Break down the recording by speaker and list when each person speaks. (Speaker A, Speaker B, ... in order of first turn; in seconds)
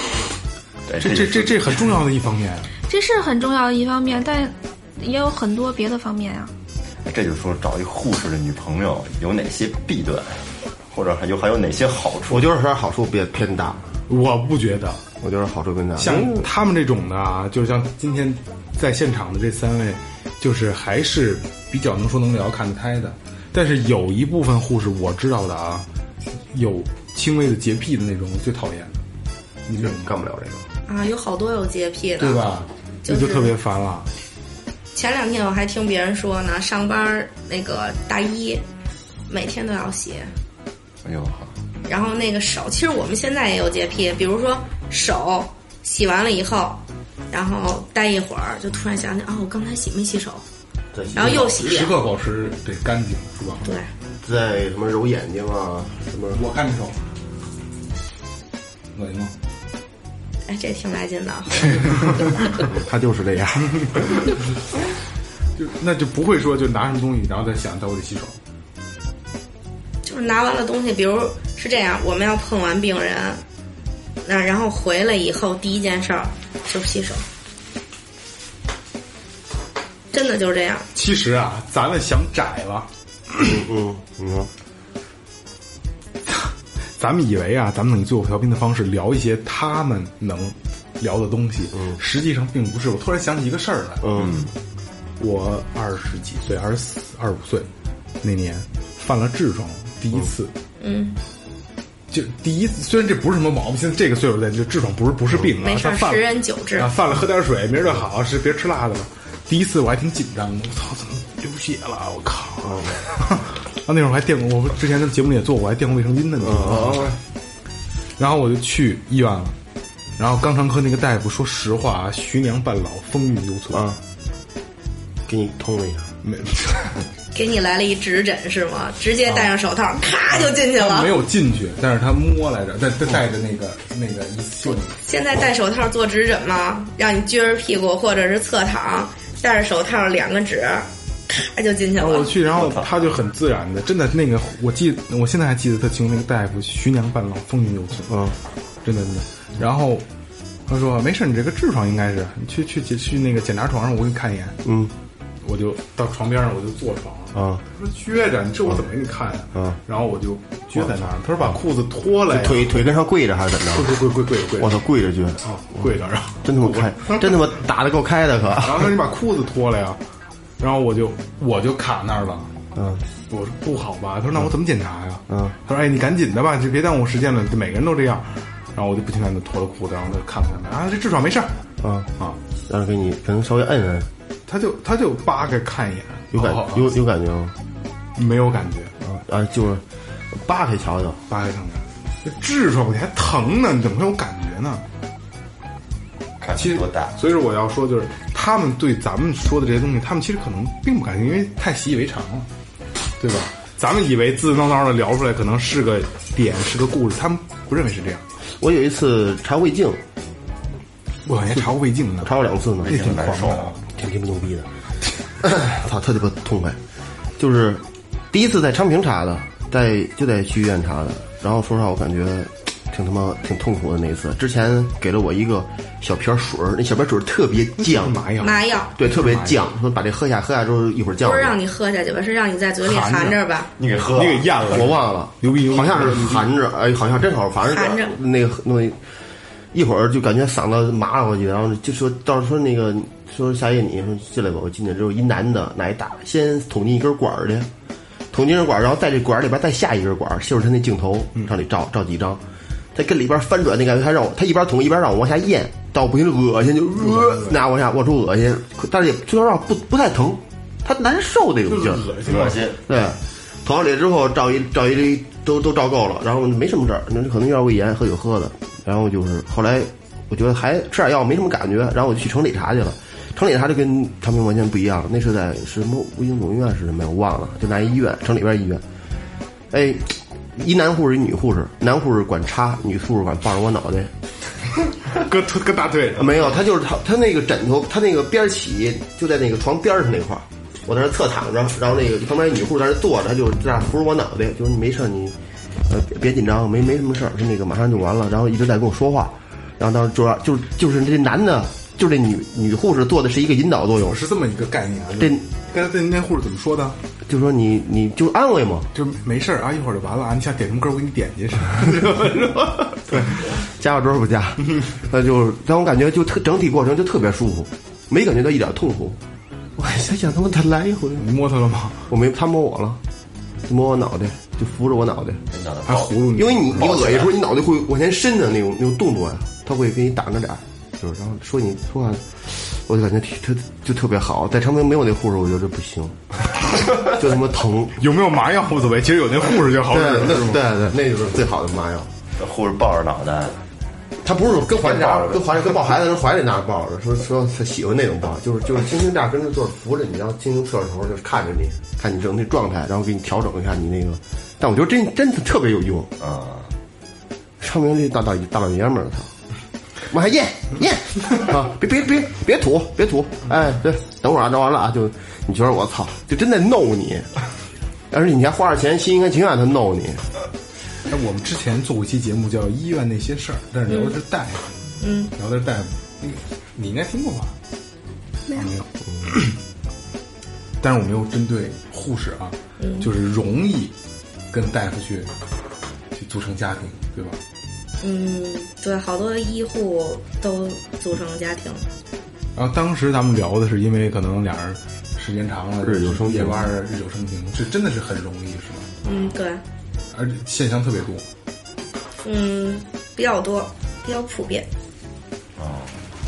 Speaker A: 0.9-2.0, 7.0-12.5, 41.0-41.5, 94.2-94.5, 142.5-143.1, 196.4-197.2, 212.8-213.8, 233.8-234.9, 262.2-262.8, 325.5-327.3, 342.4-343.6, 344.7-345.6, 356.2-356.7, 405.6-405.9
Speaker B: 1.0-2.7, 14.1-15.0, 16.0-25.9, 26.5-29.0, 29.7-30.2, 32.2-34.1, 51.2-53.7, 56.3-57.0, 58.9-59.3, 63.7-64.2, 65.6-68.4, 80.9-83.5, 86.3-94.1, 95.2-97.7, 98.2-100.5, 102.1-117.2, 118.2-119.6, 120.2-124.0, 126.2-127.1, 129.3-129.5, 130.3-135.0, 142.0-148.2, 148.8-150.1, 150.7-154.6, 155.4-162.8, 163.7-164.8, 165.4-167.5, 168.6-170.0, 170.6-172.5, 173.3-181.5, 184.5-187.0, 188.2-188.9, 191.3-194.8, 196.6-202.5, 203.2-208.2, 211.2-213.8, 227.8-229.7, 232.8-236.5, 257.0-257.6, 261.7-262.7, 285.1-286.5, 304.0-307.0, 308.9-313.5, 321.2-322.1, 325.9-326.9, 338.0-340.6, 371.1-377.6, 378.5-379.6, 380.8-383.9, 384.5-385.3, 386.1-387.4, 392.6-398.9, 400.1-401.2
Speaker C: 2.9-6.5
Speaker D: 12.3-13.9, 15.2-16.5, 29.8-30.6, 50.9-51.5, 54.2-56.4, 62.7-64.0, 83.4-84.5, 94.0-94.4, 112.6-113.0, 116.4-117.2, 123.7-124.0, 125.3-126.2, 148.1-148.4, 154.7-154.9, 157.3-157.6, 162.3-163.9, 164.6-165.4, 166.4-168.9, 172.8-173.0, 181.8-182.1, 182.7-184.1, 186.3-187.6, 189.0-191.2, 208.6-210.0, 212.2-213.2, 213.9-214.7, 215.4-216.8, 217.4-228.2, 229.0-231.6, 234.7-239.0, 239.7-247.7, 248.3-252.4, 252.9-262.1, 262.8-278.8, 279.7-284.1, 286.2-295.4, 295.9-304.2, 307.3-308.9, 313.1-319.2, 319.8-321.3, 322.1-323.0, 323.7-325.4, 326.4-336.2, 337.0-338.0, 339.9-342.1, 344.2-356.1, 357.6-359.3, 360.1-367.3, 368.1-370.3, 395.9-396.6
Speaker E: 30.9-33.5, 35.0-38.6, 39.3-40.3, 41.9-50.4, 51.1-51.9, 60.5-62.2, 70.0-73.4, 74.2-77.2, 80.1-80.9, 100.8-101.2, 105.6-106.9, 127.3-131.2, 135.0-142.3, 228.4-228.9, 231.2-233.7, 237.7-238.2, 373.9-374.2, 375.0-375.3, 382.8-383.1, 388.0-391.9, 399.0-399.6, 402.2-404.7